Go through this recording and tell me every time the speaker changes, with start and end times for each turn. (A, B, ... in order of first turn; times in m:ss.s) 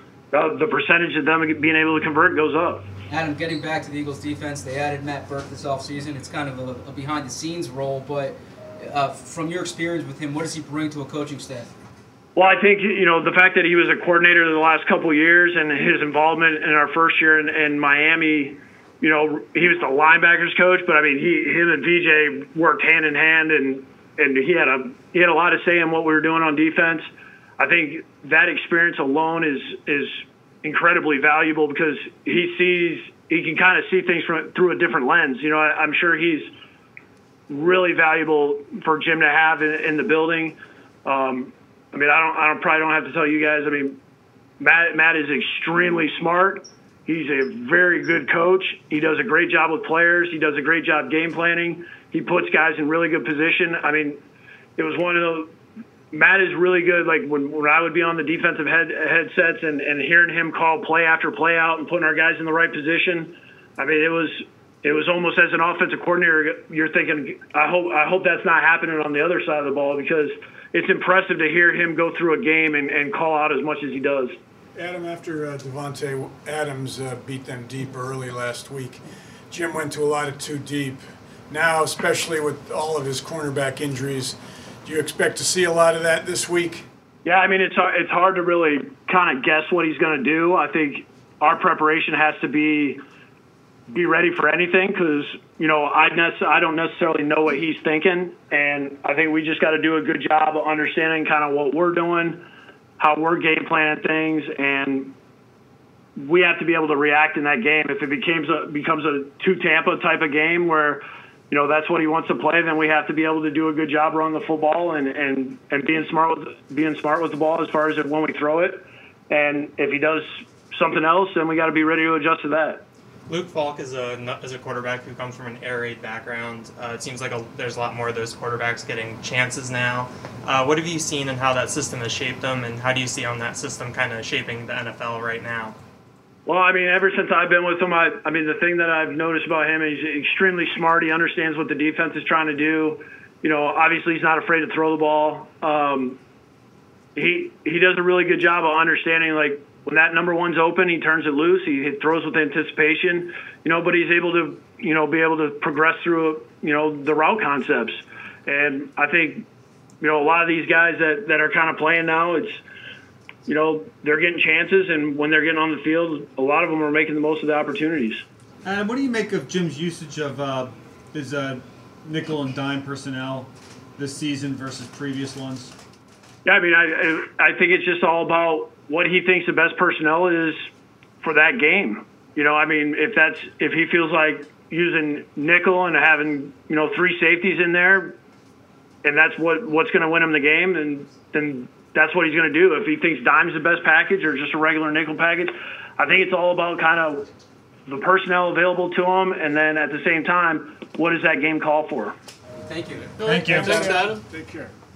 0:00.3-0:02.9 A
0:03.1-0:11.7 B
0:12.3-0:27.0 A
0:27.6-0:36.5 A
0:37.5-0:44.0 A
0:44.6-0:54.2 A
0:54.8-0:55.5 A
0:56.1-1:14.4 A
1:14.7-1:26.8 C
1:27.2-1:33.0 A
1:33.9-1:42.4 A
1:43.0-1:45.1 A
1:46.2-2:02.8 A
2:03.3-2:15.8 D
2:16.4-2:26.2 A
2:27.2-2:39.5 A
2:40.0-2:42.6 A
2:43.4-2:48.2 A
2:48.6-2:55.7 E
2:56.4-3:00.7 A
3:01.2-3:08.2 A
3:09.0-3:17.3 A
3:17.9-3:22.1 A
3:22.6-3:23.1 B
3:23.2-3:23.9 E
3:23.6-3:24.7 C